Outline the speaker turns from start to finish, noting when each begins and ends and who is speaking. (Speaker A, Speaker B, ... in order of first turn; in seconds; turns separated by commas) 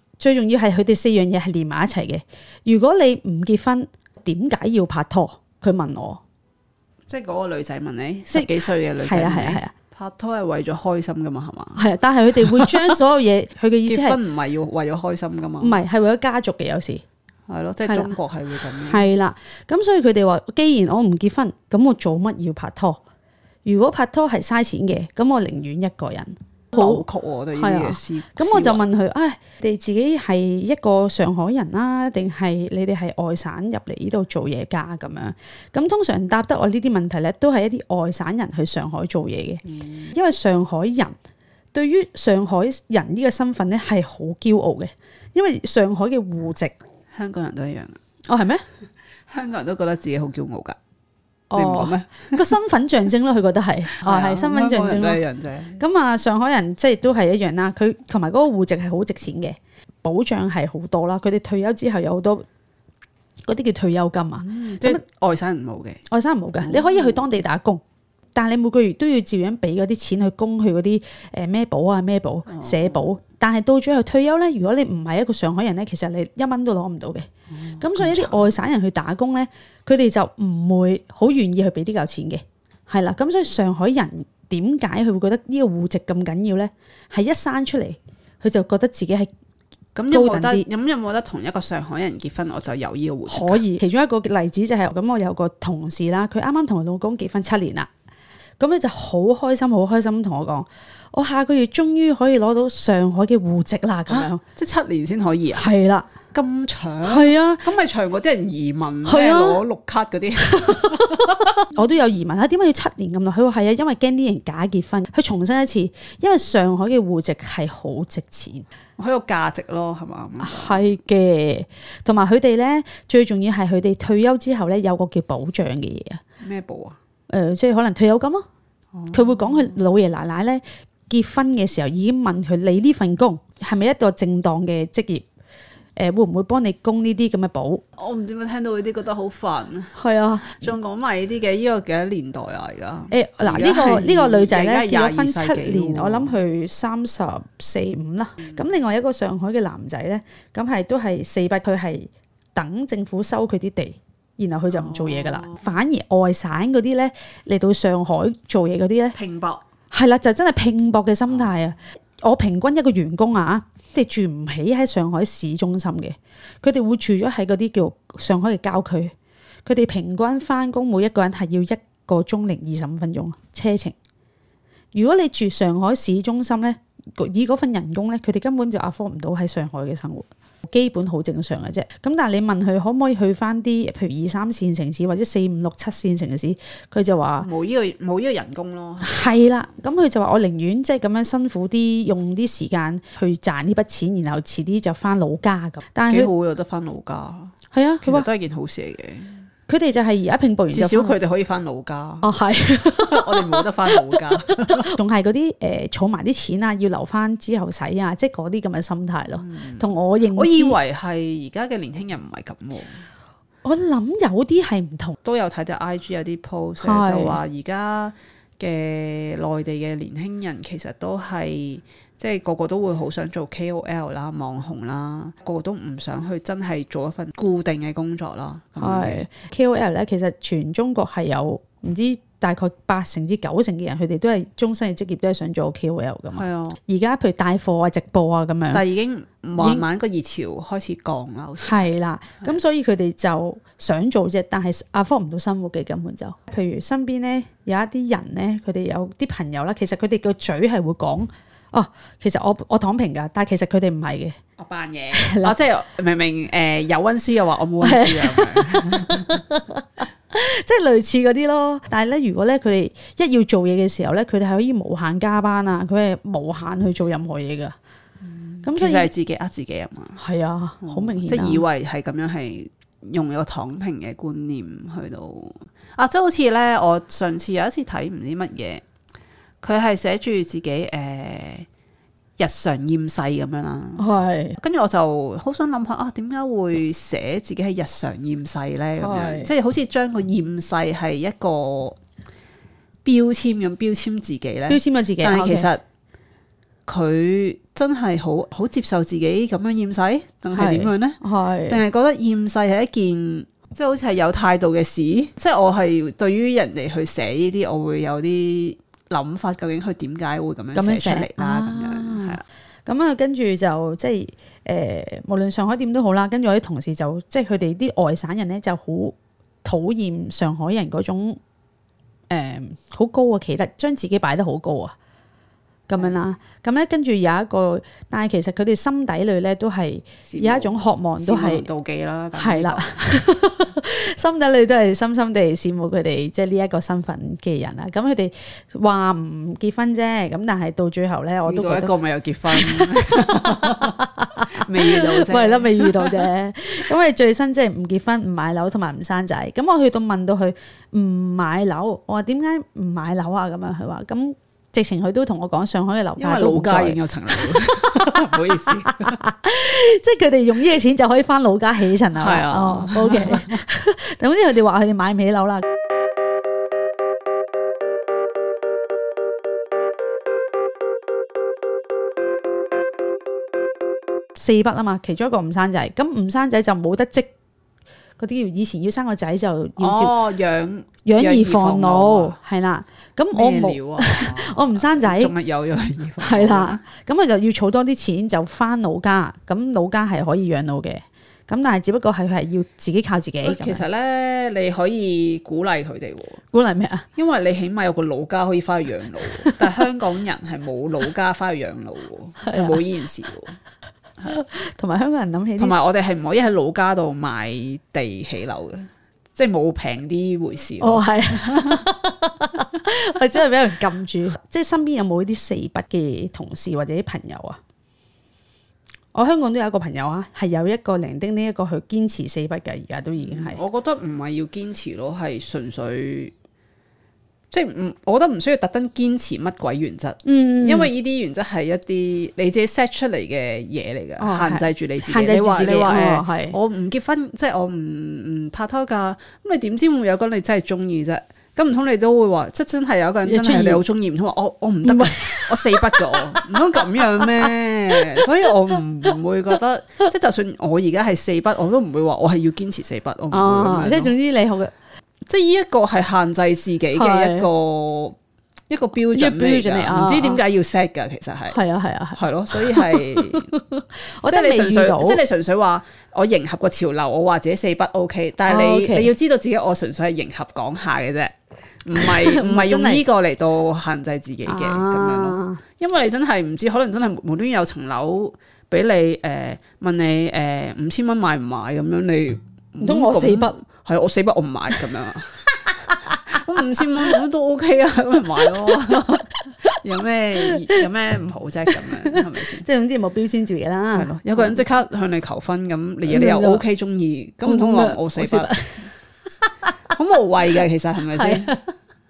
Speaker A: 0.2-6.2, Speaker B: 7.1-11.9, Speaker A: 8.3-9.7, Speaker A: 11.8-14.2, Speaker B: 12.4-12.7, Speaker B: 13.9-15.8, Speaker A: 15.6-17.0, Speaker B: 17.5-19.1, Speaker A: 17.8-18.1, Speaker A: 18.8-23.0, Speaker A: 23.6-41.1, Speaker B: 26.7-28.8, Speaker B: 39.8-40.0, Speaker A: 41.7-46.7, Speaker B: 47.1-48.0, Speaker A: 48.3-48.6, Speaker B: 49.3-50.8, Speaker A: 51.5-55.2, Speaker B: 51.5-52.4, Speaker B: 53.9-55.8, Speaker A: 55.8-62.5, Speaker A: 63.4-65.0, Speaker B: 64.4-66.0, Speaker A: 66.1-67.8, Speaker B: 66.6-67.2, Speaker A: 68.3-89.3, Speaker B: 72.5-73.1, Speaker B: 77.5-78.5, Speaker B: 89.9-93.6, Speaker A: 90.1-90.7, Speaker A: 93.3-97.9, Speaker A: 98.6-104.4, Speaker B: 104.1-105.7, Speaker A: 105.5-106.1, Speaker B: 106.3-111.5, Speaker A: 107.0-107.7, Speaker A: 109.0-109.6, Speaker A: 110.6-118.6, Speaker B: 119.0-120.8, Speaker A: 120.4-126.2, Speaker B: 126.4-127.0, Speaker A: 127.3-128.4, Speaker B: 128.9-129.7, Speaker A: 129.1-135.2, Speaker A: 136.0-137.8, Speaker B: 137.9-146.3, Speaker A: 139.9-140.7, Speaker A: 143.1-159.2, Speaker B: 154.7-155.8, Speaker B: 159.1-159.6, Speaker A: 159.9-169.1, Speaker A: 169.6-173.9, Speaker A: 174.9-187.5, Speaker B: 187.4-189.2, Speaker A: 189.0-196.3, Speaker B: 196.1-199.4, Speaker A: 197.7-198.3, Speaker A: 199.7-201.2, Speaker B: 200.7-202.3, Speaker A: 202.2-210.8, Speaker B: 203.0-204.9, Speaker B: 209.4-213.0, Speaker A: 213.6-215.1, Speaker B: 215.2-229.3, Speaker A: 216.8-217.4, Speaker A: 228.8-238.8, Speaker B: 236.3-236.8, Speaker B: 238.7-242.5, Speaker A: 239.6-239.9, Speaker A: 241.6-254.3, Speaker B: 254.6-259.4, Speaker A: 255.1-255.6, Speaker A: 257.8-267.7, Speaker B: 268.3-270.2, Speaker A: 268.6-269.1, Speaker A: 270.2-271.6, Speaker B: 270.8-278.8, Speaker B: 279.6-281.7, Speaker B: 282.4-284.1, Speaker A: 284.0-284.6, Speaker B: 284.6-292.0, Speaker A: 289.0-289.5, Speaker B: 293.0-295.8, Speaker A: 294.7-295.7, Speaker B: 296.9-312.4, Speaker A: 300.5-301.8, Speaker A: 310.7-321.4, Speaker A: 322.3-324.9, Speaker A: 325.9-331.6, Speaker B: 330.2-333.1, Speaker A: 332.4-341.9, Speaker B: 341.4-346.2, Speaker A: 342.5-365.6, Speaker B: 356.2-359.2, Speaker B: 362.1-363.6, Speaker A: 374.4-377.3, Speaker A: 378.2-380.3, Speaker B: 379.8-382.4, Speaker A: 381.0-385.3, Speaker B: 383.3-386.8, Speaker A: 386.2-393.8, Speaker B: 393.4-396.4, Speaker A: 396.5-397.1, Speaker B: 397.1-403.6, Speaker A: 402.4-402.8, Speaker A: 404.2-405.9, Speaker B: 405.6-411.7, Speaker A: 410.8-417.6, Speaker A: 419.1-423.6, Speaker B: 423.2-426.3, Speaker B: 427.5-454.1, Speaker A: 430.2-430.9, Speaker A: 434.2-436.6, Speaker A: 443.2-443.8, Speaker A: 444.8-447.5, Speaker A: 453.3-454.7, Speaker B: 455.2-458.2, Speaker A: 456.9-457.5, Speaker B: 458.7-461.6, Speaker A: 459.1-460.4, Speaker A: 461.5-465.2, Speaker B: 462.1-463.5, Speaker B: 464.2-492.6, Speaker A: 468.4-469.1, Speaker A: 471.9-473.0, Speaker A: 474.4-475.6, Speaker A: 482.8-483.6, Speaker A: 492.1-494.6, Speaker B: 493.9-498.6, Speaker A: 496.1-496.6, Speaker A: 497.4-498.9, Speaker B: 499.9-501.6, Speaker A: 501.1-501.6